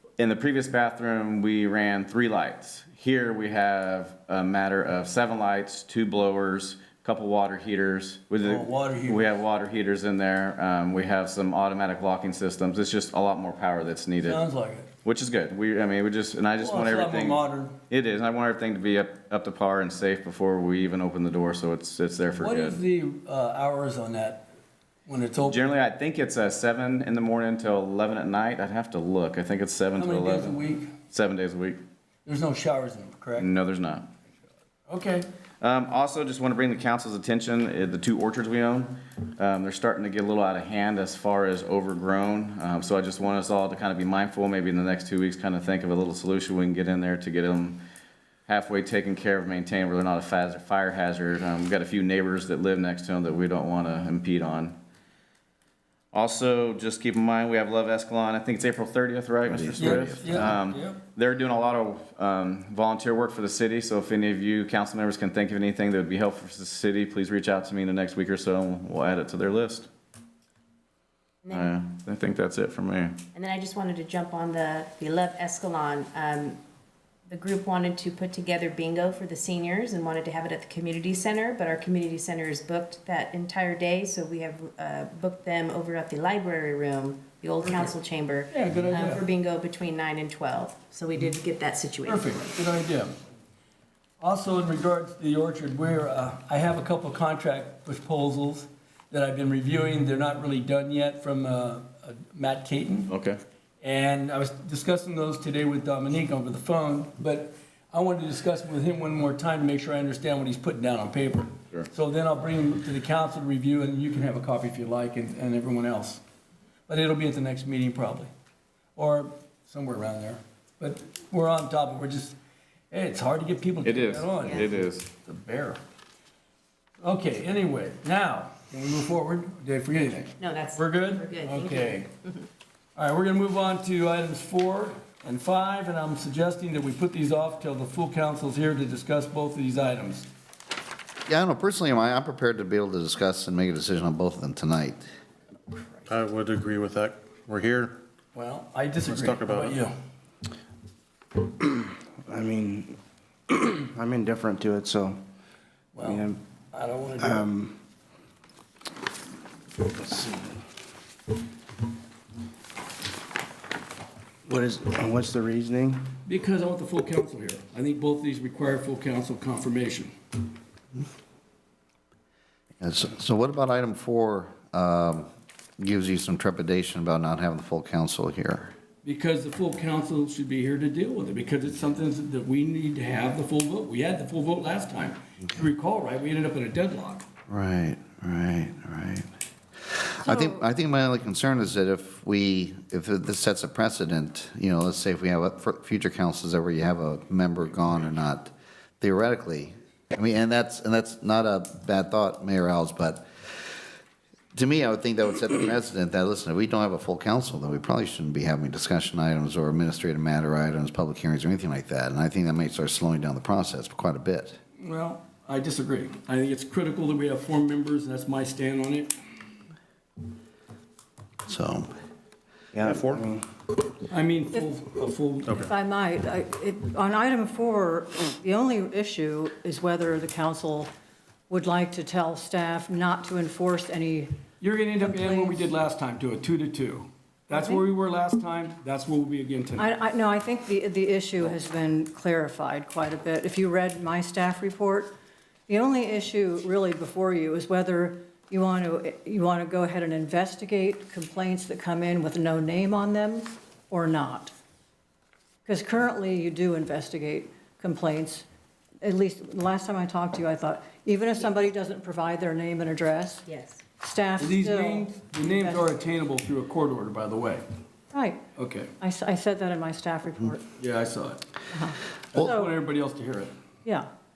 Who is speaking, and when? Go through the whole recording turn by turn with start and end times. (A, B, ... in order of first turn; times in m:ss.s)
0:00.2-0:14.4 A
0:08.4-0:09.3 B
0:14.2-0:14.9 B
0:15.0-0:22.8 A
0:16.6-0:17.8 B
0:22.4-0:24.5 B
0:25.1-0:25.6 B
0:25.5-0:31.8 A
0:30.0-0:30.9 B
0:32.3-0:33.5 B
0:33.4-0:34.1 A
0:34.9-0:35.3 B
0:35.6-0:47.8 A
0:48.5-0:54.8 A
0:56.1-1:09.9 A
0:59.4-1:00.6 C
0:59.8-1:01.0 B
1:11.4-1:11.7 D
1:11.5-1:13.2 A
1:13.3-1:16.6 D
1:17.3-1:32.5 D
1:28.5-1:29.2 B
1:32.0-1:33.2 B
1:34.2-1:43.1 B
1:43.1-1:43.4 A
1:43.8-1:56.2 B
1:56.9-1:58.3 B
1:59.0-2:02.4 B
2:02.9-2:05.8 B
2:03.8-2:05.1 A
2:07.0-2:12.1 B
2:10.4-2:12.5 D
2:13.0-2:20.3 B
2:21.3-2:25.0 C
2:26.1-2:28.0 E
2:28.3-2:29.9 B
2:29.1-2:29.8 E
2:31.6-2:35.2 F
2:35.9-2:37.5 B
2:36.0-2:36.4 F
2:37.2-2:37.7 F
2:39.8-2:40.6 F
2:44.5-2:46.1 F
2:46.2-2:50.1 B
2:52.8-2:55.3 C
2:55.8-2:58.7 C
2:59.0-3:07.2 B
3:07.5-3:09.3 C
3:09.8-3:23.2 C
3:10.2-3:10.6 G
3:24.6-3:34.6 C
3:34.8-3:39.2 B
3:41.5-3:41.9 C
3:42.7-3:43.5 F
3:42.8-3:43.3 E
3:44.1-3:45.7 B
3:45.6-3:50.9 G
3:51.5-3:54.4 G
3:54.6-3:59.9 B
3:55.1-3:55.6 G
3:59.8-4:05.1 G
4:05.7-4:14.5 G
4:15.7-4:18.5 G
4:19.0-4:23.4 G
4:23.5-4:23.8 D
4:24.0-4:25.9 G
4:24.4-4:27.6 B
4:28.1-4:28.4 G
4:28.6-4:28.9 B
4:29.0-4:30.7 G
4:30.8-4:31.5 B
4:31.7-4:32.8 G
4:32.3-4:33.5 B